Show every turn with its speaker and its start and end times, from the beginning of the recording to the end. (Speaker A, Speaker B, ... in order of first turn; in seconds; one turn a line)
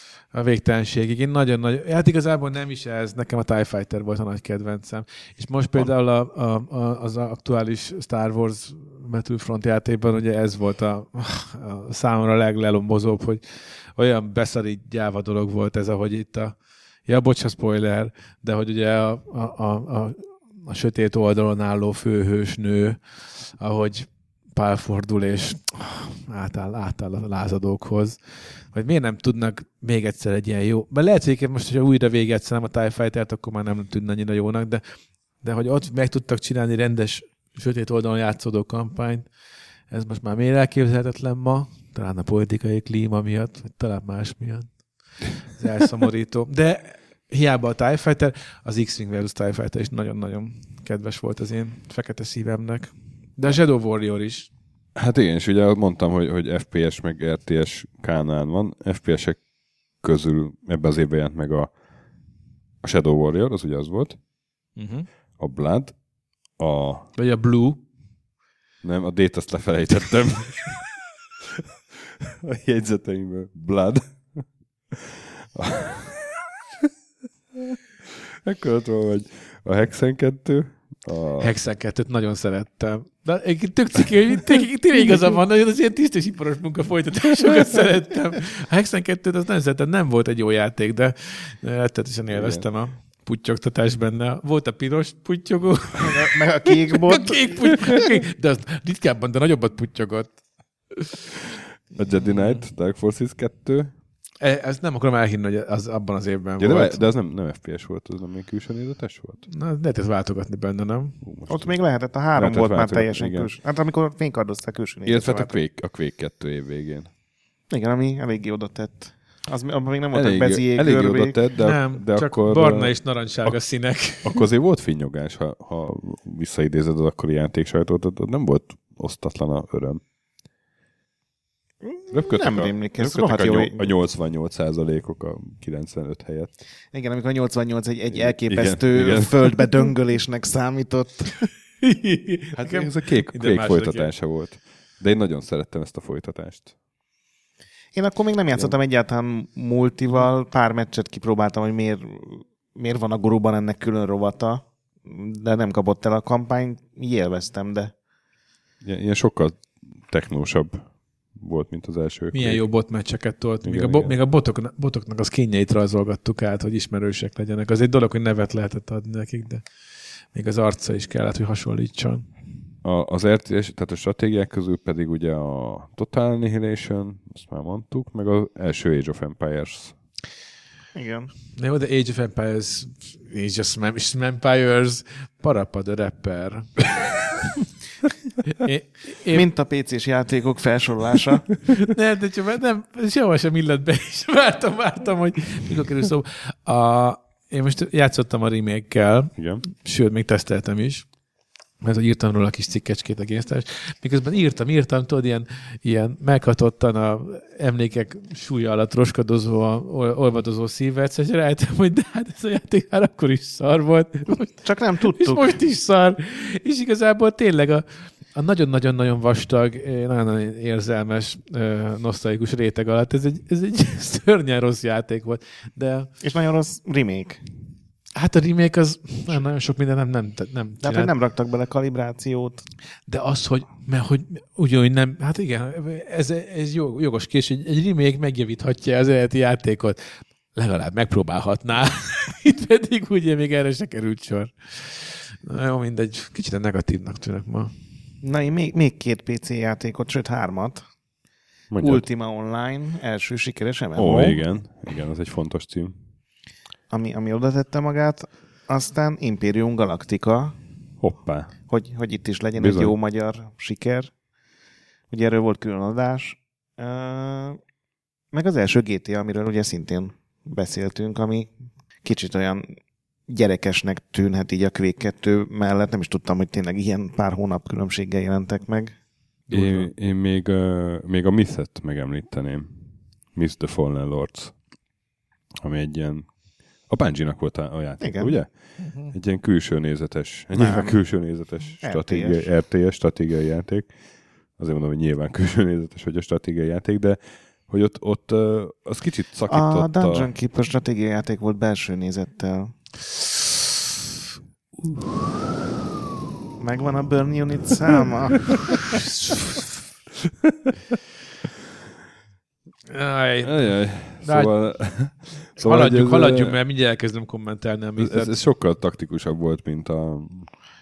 Speaker A: 0.3-13.4
Speaker A: 13.9-28.2
Speaker A: 28.7-34.8
Speaker A: 35.4-39.3
Speaker A: 39.9-44.7
Speaker A: 45.5-54.5
Speaker B: 54.9-59.4
Speaker B: 60.0-61.7
Speaker B: 62.8-64.2
Speaker A: 64.8-65.1
Speaker B: 65.4-65.9
Speaker B: 66.6-67.1
Speaker A: 67.2-67.8
Speaker B: 68.8-76.9
Speaker B: 77.5-81.5
Speaker A: 81.4-100.3
Speaker B: 92.3-92.7
Speaker C: 96.0-97.8
Speaker A: 100.9-101.2
Speaker B: 101.9-103.9
Speaker A: 102.2-102.6
Speaker A: 104.4-107.1
Speaker B: 106.6-109.4
Speaker A: 109.5-111.2
Speaker B: 111.2-111.8
Speaker C: 111.5-115.5
Speaker B: 112.3-113.5
Speaker B: 115.0-117.1
Speaker C: 117.7-121.4
Speaker B: 120.1-123.6
Speaker A: 121.6-124.4
Speaker B: 124.2-130.0
Speaker C: 131.8-133.9
Speaker B: 132.1-136.5
Speaker C: 136.9-141.5
Speaker B: 138.1-139.7
Speaker A: 141.8-144.1
Speaker B: 142.6-146.7
Speaker C: 147.9-157.9
Speaker B: 158.8-162.6
Speaker A: 162.3-169.6
Speaker B: 163.6-164.1
Speaker A: 170.3-172.3
Speaker B: 172.8-179.9
Speaker C: 180.9-181.3
Speaker A: 181.6-187.3
Speaker A: 188.5-189.4
Speaker C: 189.3-191.6
Speaker A: 191.8-201.1
Speaker B: 199.3-199.6
Speaker A: 201.8-226.1
Speaker C: 214.6-215.5
Speaker C: 226.2-227.4
Speaker A: 228.2-231.1
Speaker C: 230.8-232.6
Speaker A: 233.1-240.0
Speaker A: 240.5-247.7
Speaker C: 248.2-250.8
Speaker B: 251.7-252.1
Speaker C: 251.8-254.4
Speaker B: 253.9-255.9
Speaker C: 256.9-260.6
Speaker B: 261.0-261.5
Speaker C: 261.7-264.1
Speaker B: 262.5-262.9
Speaker C: 265.1-267.6
Speaker C: 268.3-271.5
Speaker C: 272.0-272.7
Speaker C: 273.3-278.9
Speaker A: 279.5-279.9
Speaker B: 279.5-282.8
Speaker B: 283.3-284.5
Speaker B: 285.6-286.3
Speaker B: 286.9-288.5
Speaker C: 288.0-288.3
Speaker A: 288.8-289.1
Speaker B: 289.0-293.9
Speaker C: 290.5-291.0
Speaker C: 291.8-292.5
Speaker B: 294.6-300.3
Speaker C: 299.5-302.8
Speaker C: 306.6-309.0
Speaker A: 312.9-313.6
Speaker B: 313.4-316.6
Speaker A: 314.2-314.5
Speaker A: 315.6-318.4
Speaker B: 318.0-320.5